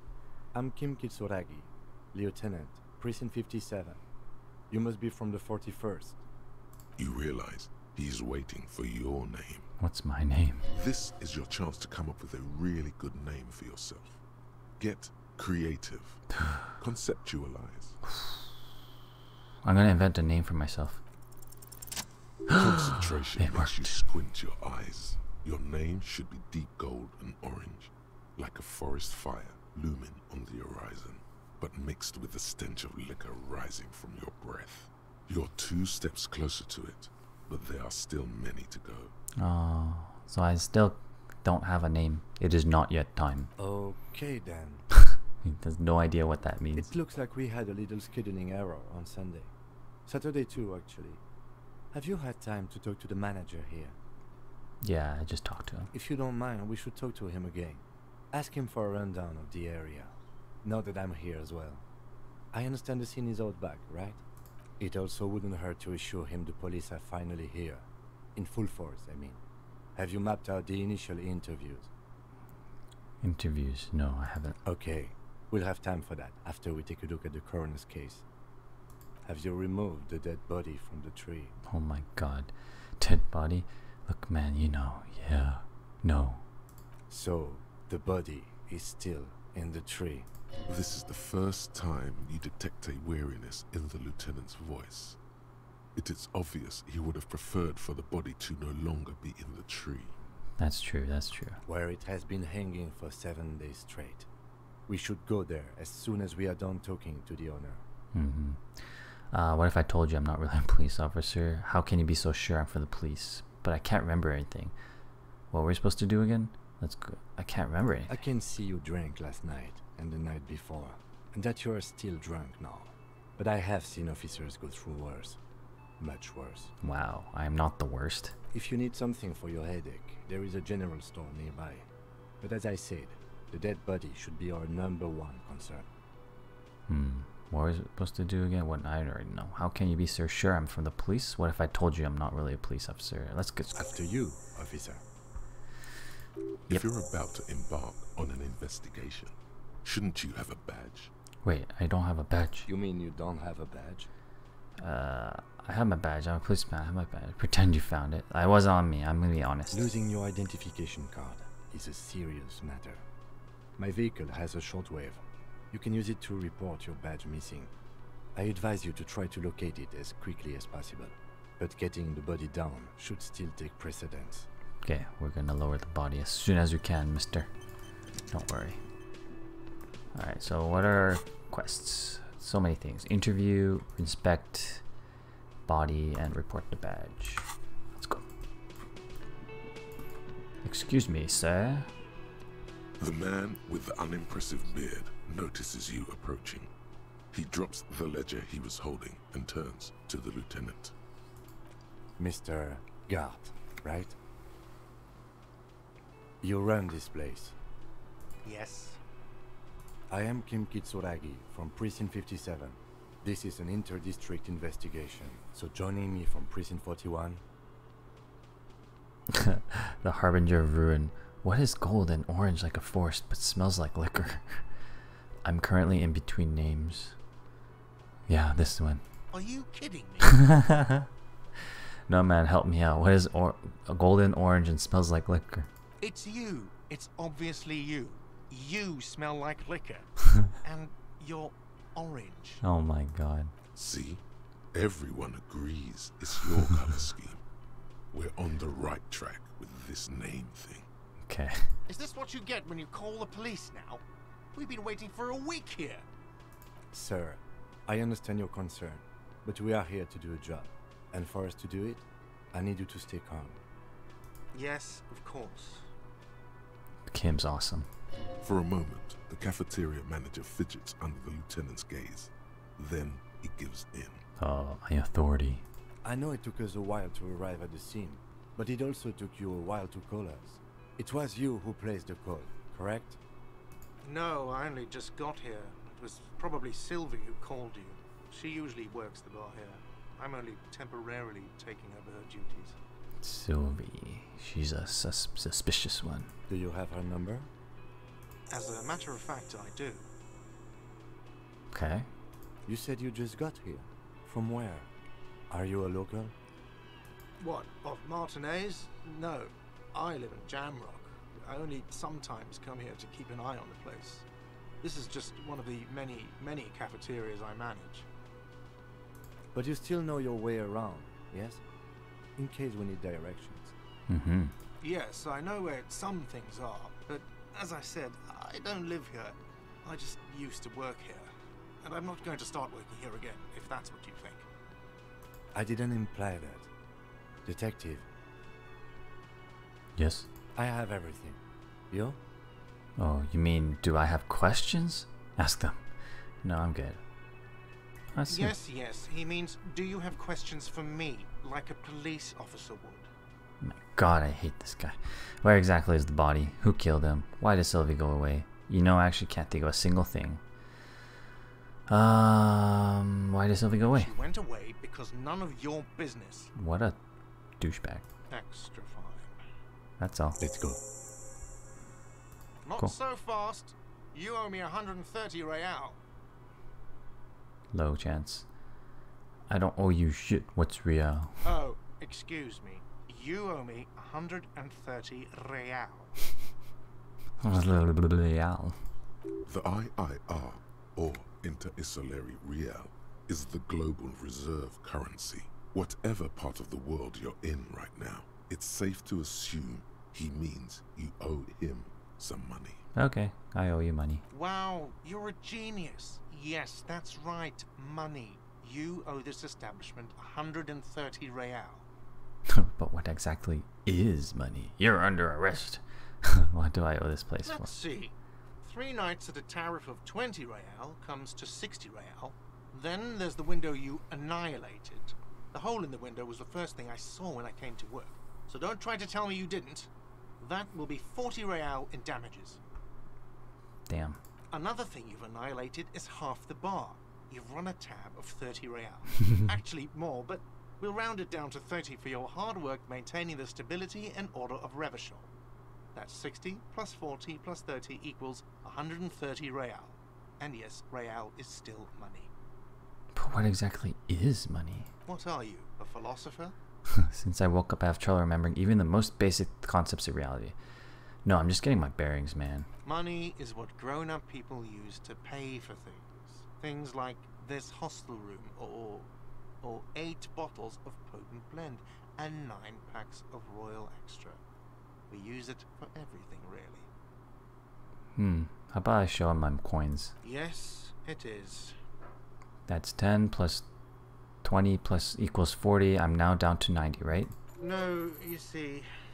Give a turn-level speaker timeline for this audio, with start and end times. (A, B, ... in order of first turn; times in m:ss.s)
0:00.5-0:04.0 A
0:04.7-0:06.2 A
0:07.0-0:09.7 B
0:09.8-0:10.7 C
0:10.7-0:14.2 B
0:14.8-0:18.0 B
0:18.1-0:18.5 C
0:19.6-0:21.0 C
0:22.5-0:39.1 B
0:22.5-0:24.0 C
0:39.4-0:43.5 C
0:43.6-0:44.8 A
0:45.4-0:46.9 C
0:46.8-0:49.5 A
0:50.1-0:51.2 A
0:51.9-0:54.0 A
0:54.8-0:55.9 C
0:55.9-1:00.1 A
1:00.6-1:01.8 A
1:02.5-1:04.2 A
1:04.8-1:09.4 A
1:10.0-1:11.9 A
1:13.2-1:14.6 C
1:14.6-1:18.2 A
1:19.2-1:21.5 A
1:21.7-1:26.4 C
1:27.1-1:30.3 A
1:30.7-1:35.2 B
1:35.9-1:40.2 B
1:40.6-1:41.6 C
1:41.7-1:44.2 A
1:44.9-1:47.8 A
1:48.1-1:54.7 C
1:55.5-1:58.1 C
1:58.1-2:05.4 A
2:06.0-2:06.7 A
2:06.8-2:08.4 C
2:08.5-2:11.9 A
2:12.4-2:15.9 A
2:16.9-2:23.9 C
2:23.8-2:25.0 A
2:26.7-2:31.1 B
2:31.4-2:32.7 C
2:32.7-2:34.1 A
2:34.8-2:39.9 C
2:39.7-2:43.0 A
2:43.8-2:47.7 A
2:48.4-2:54.5 A
2:54.8-2:57.5 C
2:58.3-2:58.8 C
3:00.1-3:04.8 C
3:05.7-3:08.2 C
3:10.6-3:11.9 C
3:13.0-3:16.7 B
3:17.3-3:20.9 B
3:22.2-3:24.2 A
3:26.4-3:27.6 A
3:28.4-3:29.0 D
3:30.1-3:37.4 A
3:39.3-3:44.6 C
3:45.4-3:47.2 C
3:48.3-3:49.0 C
3:49.3-3:50.5 D
3:50.2-3:51.1 C
3:52.1-3:55.7 C
3:56.0-4:02.6 D
4:02.6-4:03.5 C
4:03.7-4:04.2 B
4:04.7-4:07.4 B
4:08.1-4:10.9 B
4:11.3-4:11.7 C
4:11.9-4:16.0 D
4:16.9-4:23.6 A
4:24.5-4:25.9 D
4:27.1-4:27.9 C
4:28.4-4:34.2 B
4:34.4-4:35.6 C
4:36.0-4:43.2 A
4:44.0-4:52.8 D
4:53.2-4:56.3 C
4:56.5-4:57.5 A
4:58.5-5:00.1 D
5:01.7-5:02.1 C
5:02.6-5:04.9 A
5:05.5-5:06.3 A
5:07.4-5:14.2 D
5:14.8-5:18.1 D
5:19.5-5:21.6 A
5:22.4-5:23.7 A
5:24.1-5:24.5 C
5:24.8-5:31.3 D
5:31.8-5:34.5 D
5:35.5-5:36.7 A
5:37.4-5:38.0 A
5:40.0-5:40.3 C
5:40.6-5:41.4 A
5:41.9-5:42.2 A
5:43.0-5:45.8 C
5:46.4-5:47.0 C
5:48.1-5:48.5 C
5:48.3-5:53.1 D
5:53.6-6:00.4 C
6:01.9-6:04.1 C
6:03.9-6:06.5 D
6:06.5-6:07.0 C
6:07.6-6:08.0 C
6:08.3-6:09.3 D
6:10.0-6:10.4 C
6:10.4-6:10.8 A
6:12.6-6:16.0 D
6:17.7-6:18.5 C
6:19.5-6:21.4 C
6:21.4-6:26.1 D
6:27.4-6:28.8 C
6:29.4-6:42.8 B
6:43.0-6:44.2 C
6:44.3-6:51.8 D
6:52.5-6:57.8 C
6:57.4-7:12.6 D
7:13.9-7:14.2 C
7:14.5-7:25.3 D
7:25.9-7:32.3 D
7:33.1-7:34.9 C
7:35.0-7:36.6 D
7:36.9-7:40.5 C
7:41.2-7:42.7 C
7:42.8-7:49.1 D
7:49.6-7:54.4 D
7:55.1-7:56.9 D
7:58.2-8:00.1 C
8:00.2-8:01.8 D
8:02.7-8:03.6 C
8:04.4-8:07.3 C
8:07.6-8:08.9 D